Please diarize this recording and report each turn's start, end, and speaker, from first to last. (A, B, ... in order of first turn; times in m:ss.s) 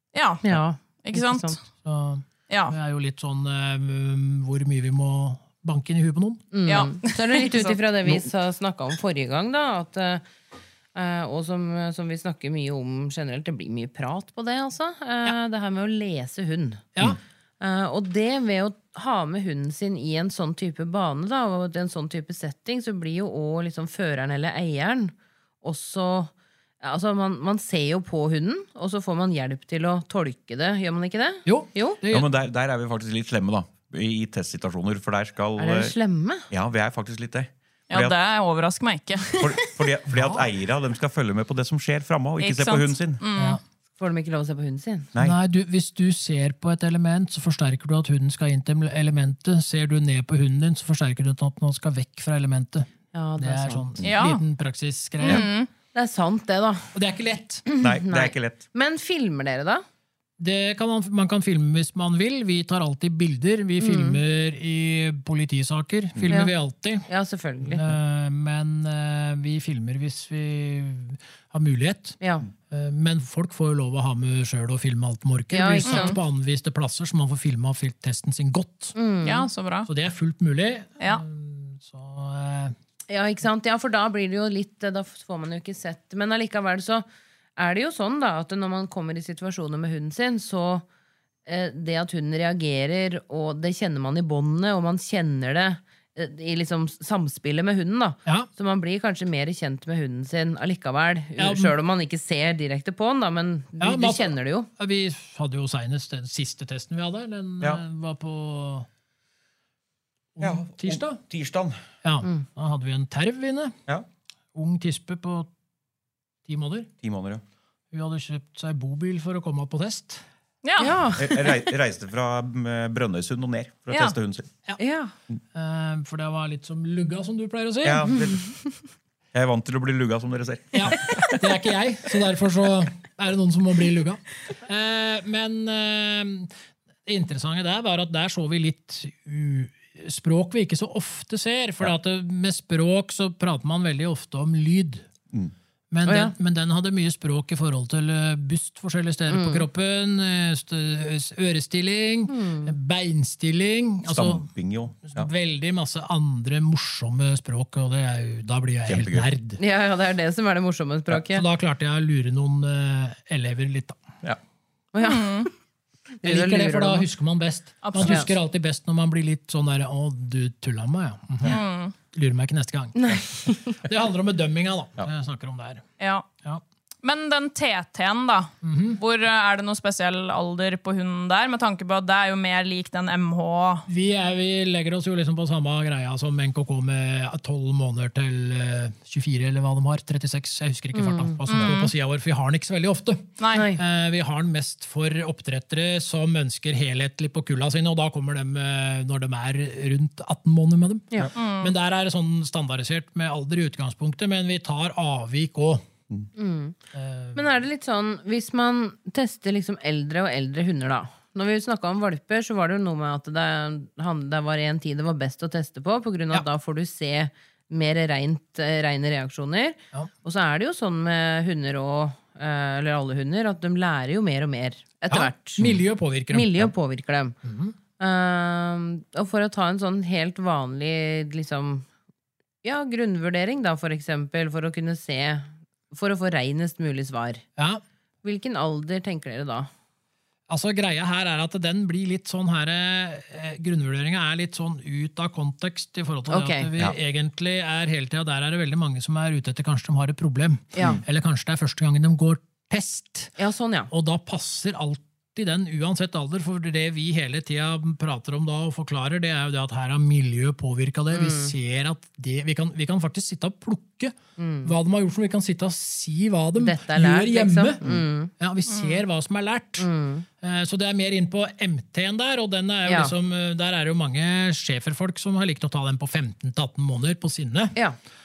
0:00.2-0:00.4 A
0:00.4-0:01.6 B
0:01.0-0:01.6 A
0:01.8-0:06.5 C
0:02.5-0:02.8 A
0:06.5-0:10.2 B
0:06.7-0:07.8 A
0:11.0-0:16.8 B
0:17.6-0:32.0 B
0:31.4-0:32.3 C
0:32.1-0:36.0 D
0:35.6-0:36.5 B
0:36.5-0:38.2 D
0:37.9-0:39.4 A
0:39.4-0:43.2 D
0:40.1-0:40.5 C
0:42.4-0:43.6 A
0:44.0-0:45.1 B
0:45.2-0:55.4 C
0:53.1-0:53.9 B
0:54.0-0:54.4 A
0:55.2-0:55.7 A
0:55.9-0:56.9 B
0:56.9-0:57.6 C
0:57.7-0:59.8 B
0:57.8-0:58.6 D
1:00.4-1:07.1 C
1:03.8-1:04.2 B
1:06.3-1:06.5 B
1:07.1-1:07.8 B
1:07.7-1:19.0 C
1:12.2-1:12.5 B
1:15.5-1:16.2 B
1:15.9-1:16.2 A
1:19.0-1:19.5 B
1:19.2-1:19.9 A
1:19.9-1:22.8 C
1:23.1-1:27.0 B
1:27.6-1:30.8 B
1:31.5-1:44.7 B
1:41.4-1:41.7 C
1:43.8-1:48.9 C
1:50.4-1:51.2 C
1:50.4-1:51.8 D
1:52.0-1:53.8 C
1:54.5-1:55.5 C
1:56.5-1:56.9 C
1:57.0-1:57.4 D
1:57.9-2:00.2 C
2:00.6-2:01.0 A
2:00.8-2:01.4 B
2:01.2-2:04.5 D
2:04.8-2:05.1 B
2:05.5-2:08.1 C
2:07.8-2:08.5 D
2:09.3-2:11.2 D
2:10.7-2:16.5 C
2:17.1-2:25.1 C
2:25.9-2:34.5 C
2:26.1-2:26.3 B
2:29.3-2:29.7 B
2:32.3-2:32.7 B
2:34.1-2:35.3 D
2:35.0-2:39.6 C
2:38.9-2:39.3 D
2:39.6-2:41.4 B
2:41.1-2:44.0 C
2:44.9-2:45.5 B
2:45.0-2:45.5 A
2:46.2-2:47.1 B
2:46.2-2:55.8 C
2:47.8-2:48.3 A
2:51.4-2:52.0 A
2:53.0-2:53.8 B
2:56.0-2:56.3 A
2:57.0-3:03.9 A
2:58.6-2:59.0 C
3:03.9-3:25.8 C
3:10.9-3:11.4 B
3:11.5-3:11.9 A
3:13.4-3:13.7 A
3:13.5-3:13.8 B
3:21.4-3:21.7 A
3:26.4-3:26.8 B
3:26.9-3:27.5 C
3:27.4-3:45.6 B
3:45.1-3:46.7 C
3:46.3-3:47.4 B
3:47.4-3:47.8 C
3:48.0-3:51.9 B
3:52.6-3:57.4 B
3:58.2-3:59.7 B
4:00.5-4:13.3 C
4:06.3-4:06.7 B
4:10.7-4:11.0 B
4:13.4-4:13.9 B
4:13.9-4:29.9 C
4:21.1-4:21.5 B
4:24.4-4:24.7 B
4:26.6-4:28.3 B
4:28.7-4:29.0 A
4:29.8-4:30.3 B
4:30.4-4:37.8 C
4:32.9-4:33.1 B